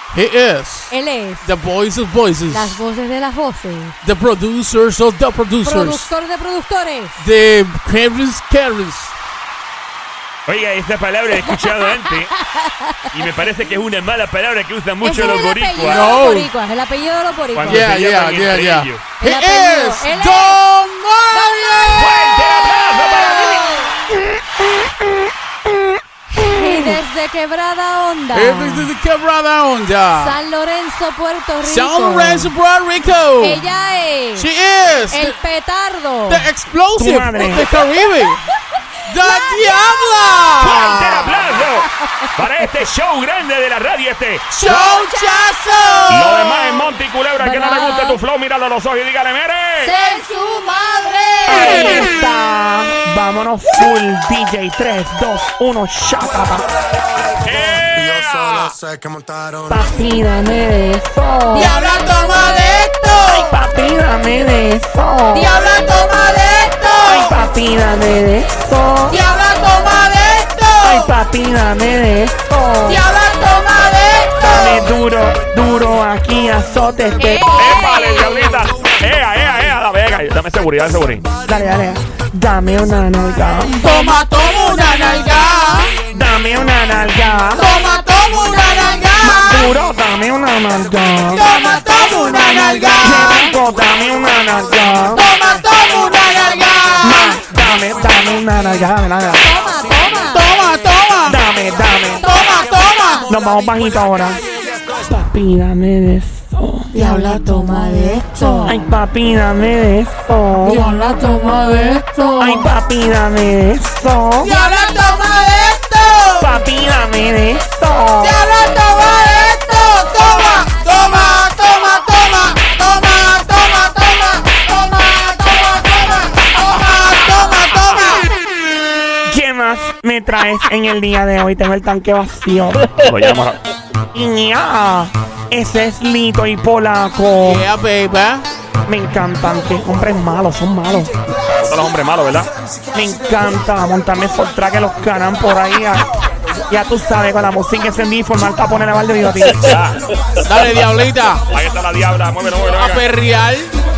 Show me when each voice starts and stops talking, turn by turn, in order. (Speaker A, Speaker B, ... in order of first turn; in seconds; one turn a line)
Speaker A: 0.1-0.9
Speaker B: 0.9-1.5
Speaker A: 1.4-2.8
Speaker B: 2.5-4.0
Speaker A: 4.0-6.1
Speaker B: 5.6-7.2
Speaker A: 7.2-9.1
Speaker C: 10.5-12.3
Speaker B: 11.5-13.0
Speaker C: 13.1-16.2
Speaker B: 15.0-17.9
Speaker A: 15.8-16.5
Speaker C: 17.5-19.1
Speaker A: 17.7-22.2
Speaker B: 19.2-20.6
Speaker B: 21.3-23.9
Speaker C: 21.9-23.8
Speaker B: 26.4-28.9
Speaker A: 28.3-30.4
Speaker B: 30.2-32.5
Speaker A: 31.6-33.6
Speaker B: 33.4-34.5
Speaker A: 34.4-35.4
Speaker B: 35.1-36.5
Speaker A: 36.3-38.5
Speaker D: 37.0-37.7
Speaker B: 39.0-39.8
Speaker A: 39.0-41.1
Speaker B: 40.3-40.7
Speaker C: 40.6-44.5
Speaker D: 40.8-41.2
Speaker B: 41.2-42.3
Speaker A: 44.5-46.6
Speaker B: 44.7-45.3
Speaker C: 46.1-49.9
Speaker B: 46.3-46.6
Speaker B: 47.4-48.2
Speaker A: 49.8-52.1
Speaker B: 49.8-50.2
Speaker D: 51.5-56.7
Speaker B: 51.5-52.0
Speaker E: 57.3-60.0
Speaker C: 57.4-58.7
Speaker D: 59.7-61.7
Speaker A: 61.5-63.5
Speaker B: 61.6-62.7
Speaker D: 63.2-65.5
Speaker A: 65.3-67.3
Speaker D: 67.0-69.2
Speaker A: 69.1-71.1
Speaker D: 70.8-73.0
Speaker A: 72.9-74.9
Speaker D: 74.4-77.5
Speaker B: 77.2-78.7
Speaker C: 77.5-81.3
Speaker D: 81.4-83.8
Speaker A: 83.8-86.0
Speaker B: 83.8-85.6
Speaker D: 86.1-87.7
Speaker A: 87.6-89.7
Speaker B: 87.6-89.2
Speaker D: 89.2-91.5
Speaker A: 91.3-93.5
Speaker B: 91.3-93.5
Speaker D: 93.0-95.3
Speaker A: 95.2-97.4
Speaker D: 97.0-99.5
Speaker B: 99.4-100.5
Speaker A: 100.3-101.4
Speaker D: 101.2-102.2
Speaker B: 102.2-103.3
Speaker A: 102.2-103.4
Speaker D: 103.3-104.5
Speaker D: 105.1-106.9
Speaker B: 106.9-108.8
Speaker A: 107.0-108.8
Speaker D: 108.7-110.8
Speaker A: 110.6-112.6
Speaker B: 110.6-112.7
Speaker D: 112.4-114.5
Speaker A: 114.4-116.5
Speaker B: 114.5-114.9
Speaker D: 116.4-118.4
Speaker A: 118.2-128.3
Speaker B: 120.5-120.8
Speaker D: 129.3-132.9
Speaker C: 133.0-133.6
Speaker D: 134.1-137.7
Speaker A: 137.4-138.5
Speaker D: 138.9-141.2
Speaker C: 141.6-142.5
Speaker D: 142.9-146.1
Speaker D: 146.7-149.8
Speaker C: 149.6-150.1
Speaker A: 150.4-151.4
Speaker C: 151.5-153.1
Speaker A: 152.7-153.7